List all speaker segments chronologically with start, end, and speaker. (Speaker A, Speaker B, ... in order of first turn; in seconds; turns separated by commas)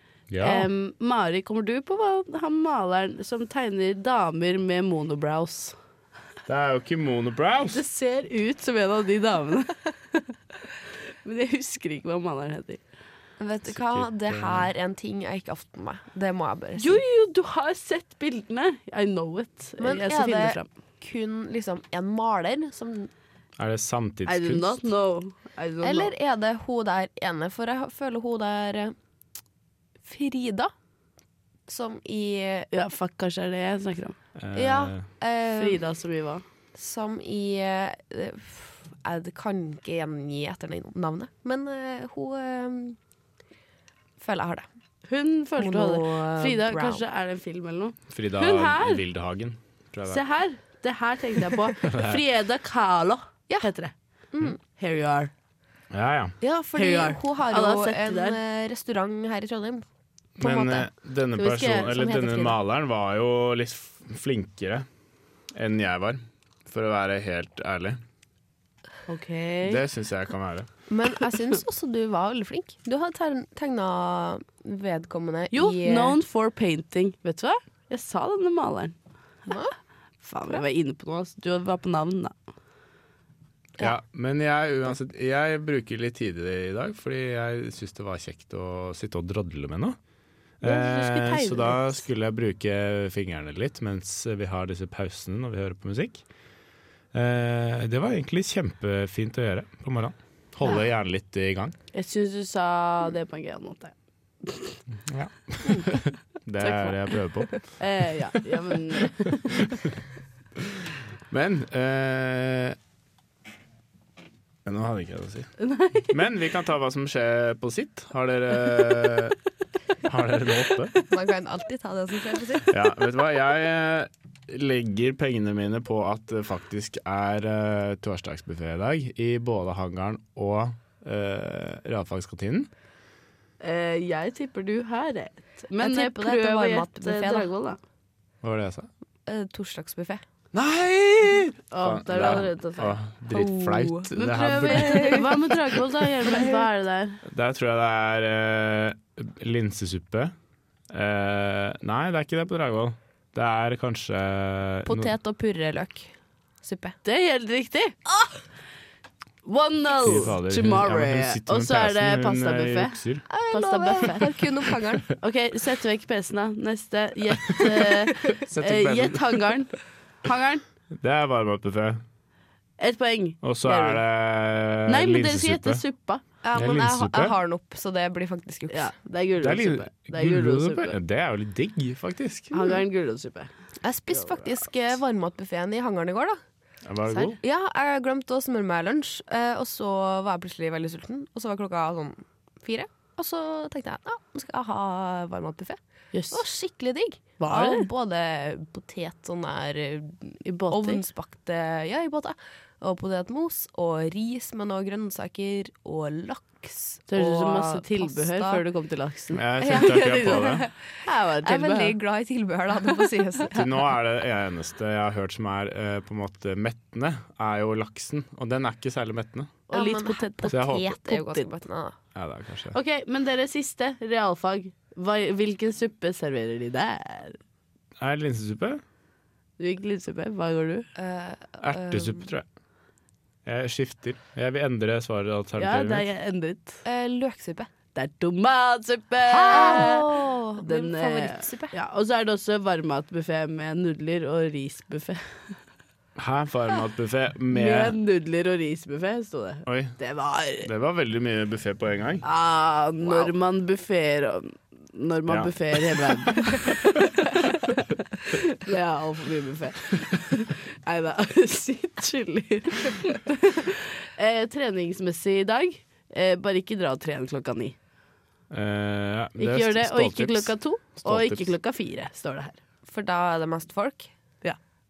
Speaker A: 0.3-0.7, Speaker B: 0.4-5.8, Speaker A: 6.5-7.8, Speaker B: 7.7-10.3, Speaker B: 11.2-12.8, Speaker C: 13.4-17.0, Speaker A: 13.7-14.7, Speaker B: 16.8-20.7, Speaker C: 19.8-23.1, Speaker A: 23.6-24.8, Speaker B: 24.3-26.1, Speaker C: 25.8-28.9, Speaker C: 30.1-30.7, Speaker C: 31.7-32.7, Speaker B: 32.7-34.2, Speaker A: 34.4-35.1, Speaker C: 34.5-35.8, Speaker B: 35.5-36.4, Speaker C: 36.8-43.0, Speaker C: 44.2-44.7, Speaker B: 45.1-49.0, Speaker C: 45.6-47.0, Speaker A: 48.1-50.2, Speaker B: 50.1-53.9, Speaker A: 51.8-52.2, Speaker C: 54.3-54.6, Speaker B: 54.6-55.3, Speaker A: 55.9-56.4, Speaker C: 56.4-59.9, Speaker B: 56.8-58.4, Speaker A: 60.4-64.9, Speaker C: 60.4-60.9, Speaker B: 61.4-62.1, Speaker C: 61.9-62.6, Speaker A: 65.5-68.0, Speaker B: 69.1-69.8, Speaker A: 69.6-70.7, Speaker C: 70.9-76.2, Speaker B: 75.5-79.0, Speaker C: 79.5-79.8, Speaker B: 80.2-82.3, Speaker A: 83.8-90.0, Speaker A: 90.6-96.2, Speaker B: 90.6-91.9, Speaker A: 97.1-101.8, Speaker B: 101.9-104.8, Speaker A: 105.1-107.6, Speaker C: 106.6-107.0, Speaker B: 107.8-109.8, Speaker A: 111.3-112.8, Speaker A: 114.7-115.5, Speaker B: 115.6-116.2, Speaker A: 116.1-119.4, Speaker A: 120.0-120.9, Speaker C: 121.1-122.7, Speaker A: 122.7-132.7, Speaker B: 133.6-137.8, Speaker C: 135.8-137.5, Speaker A: 138.4-138.9, Speaker C: 139.3-140.2, Speaker A: 140.5-145.4, Speaker B: 141.7-143.0, Speaker C: 143.3-145.4, Speaker B: 144.2-147.2, Speaker C: 146.3-146.6, Speaker A: 147.3-150.3, Speaker A: 150.9-155.1, Speaker C: 154.9-157.0, Speaker B: 157.0-158.0, Speaker B: 159.4-163.0, Speaker A: 160.0-163.3, Speaker C: 163.3-165.1, Speaker B: 163.5-164.3, Speaker B: 165.2-170.6, Speaker A: 168.4-169.6, Speaker A: 170.9-172.0, Speaker B: 172.8-174.0, Speaker A: 173.4-175.8, Speaker B: 174.9-176.2, Speaker C: 176.4-178.9, Speaker A: 176.5-177.3, Speaker B: 178.7-180.9, Speaker A: 179.4-182.8, Speaker B: 182.5-183.5, Speaker C: 183.8-186.4, Speaker A: 186.8-187.4, Speaker C: 187.1-195.8, Speaker B: 196.1-196.4, Speaker C: 196.3-208.6, Speaker B: 197.4-197.9, Speaker B: 200.4-201.0, Speaker B: 207.1-212.0, Speaker A: 209.3-210.6, Speaker C: 209.6-210.9, Speaker C: 211.4-213.6, Speaker A: 213.5-219.6, Speaker B: 219.7-221.5, Speaker C: 219.7-221.9, Speaker A: 220.5-221.0, Speaker A: 222.2-222.8, Speaker B: 222.7-227.4, Speaker A: 228.0-228.8, Speaker B: 229.6-230.9, Speaker C: 231.0-232.3, Speaker A: 231.6-232.5, Speaker A: 233.4-236.1, Speaker B: 235.6-236.8, Speaker C: 236.8-237.7, Speaker B: 237.9-245.2, Speaker C: 239.3-241.8, Speaker A: 239.4-239.9, Speaker A: 246.2-248.0, Speaker B: 247.5-250.7, Speaker A: 249.7-250.0, Speaker A: 250.6-252.2, Speaker B: 252.2-267.8, Speaker C: 253.0-253.3, Speaker A: 255.3-256.1, Speaker A: 268.5-271.5, Speaker B: 269.4-272.6, Speaker C: 272.9-274.1